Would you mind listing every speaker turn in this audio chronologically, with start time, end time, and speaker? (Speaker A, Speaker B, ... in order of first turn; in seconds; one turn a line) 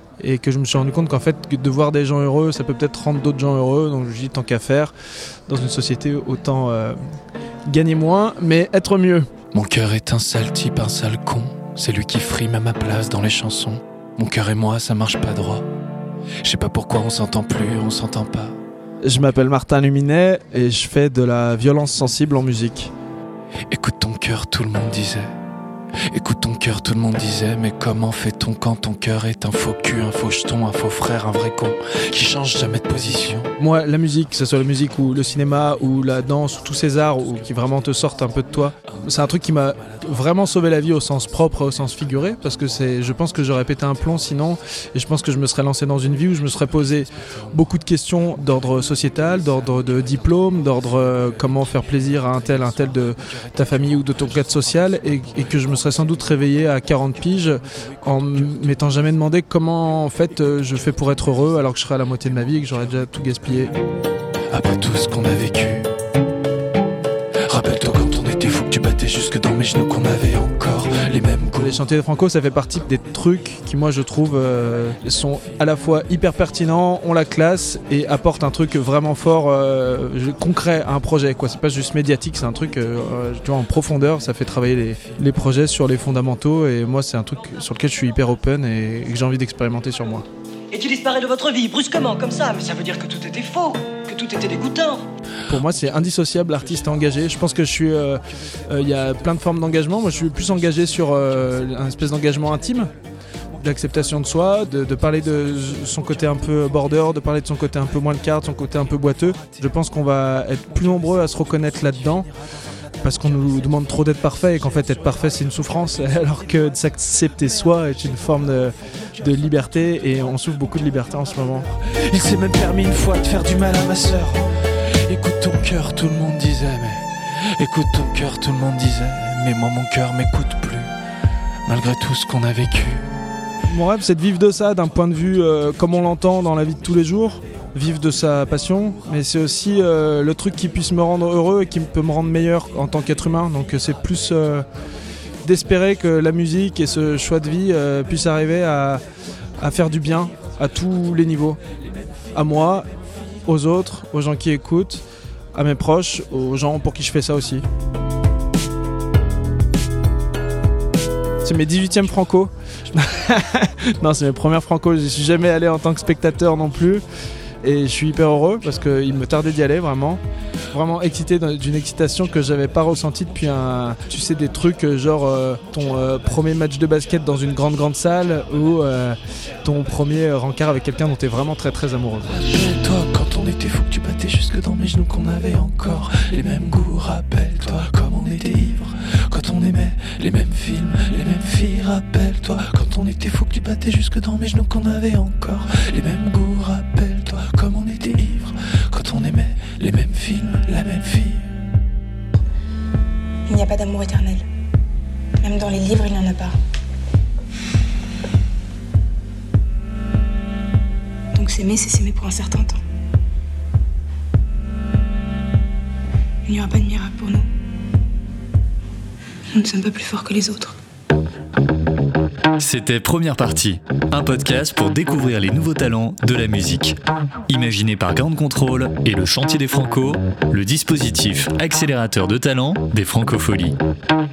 Speaker A: 0.2-4.9
Speaker A: 5.5-7.0
Speaker A: 7.7-9.3
Speaker B: 9.5-15.7
Speaker B: 16.4-18.6
Speaker A: 19.0-22.9
Speaker B: 23.7-25.3
Speaker B: 26.1-33.5
Speaker A: 33.6-63.8
Speaker B: 64.5-65.9
Speaker B: 67.5-71.7
Speaker A: 71.6-90.3
Speaker C: 90.7-95.0
Speaker A: 95.5-102.9
Speaker A: 103.6-112.3
Speaker A: 113.0-121.8
Speaker B: 122.0-130.9
Speaker B: 131.7-133.2
Speaker A: 133.7-144.7
Speaker A: 145.4-149.0
Speaker A: 149.6-151.6
Speaker A: 152.3-152.9
Speaker A: 153.5-157.6
Speaker A: 161.4-167.0
Speaker A: 167.6-182.4
Speaker B: 182.4-201.4
Speaker D: 203.5-204.5
Speaker D: 205.4-206.6
Speaker D: 211.3-212.8
Speaker D: 216.5-217.5
Speaker D: 219.5-220.8
Speaker E: 222.6-227.0
Speaker E: 227.5-233.8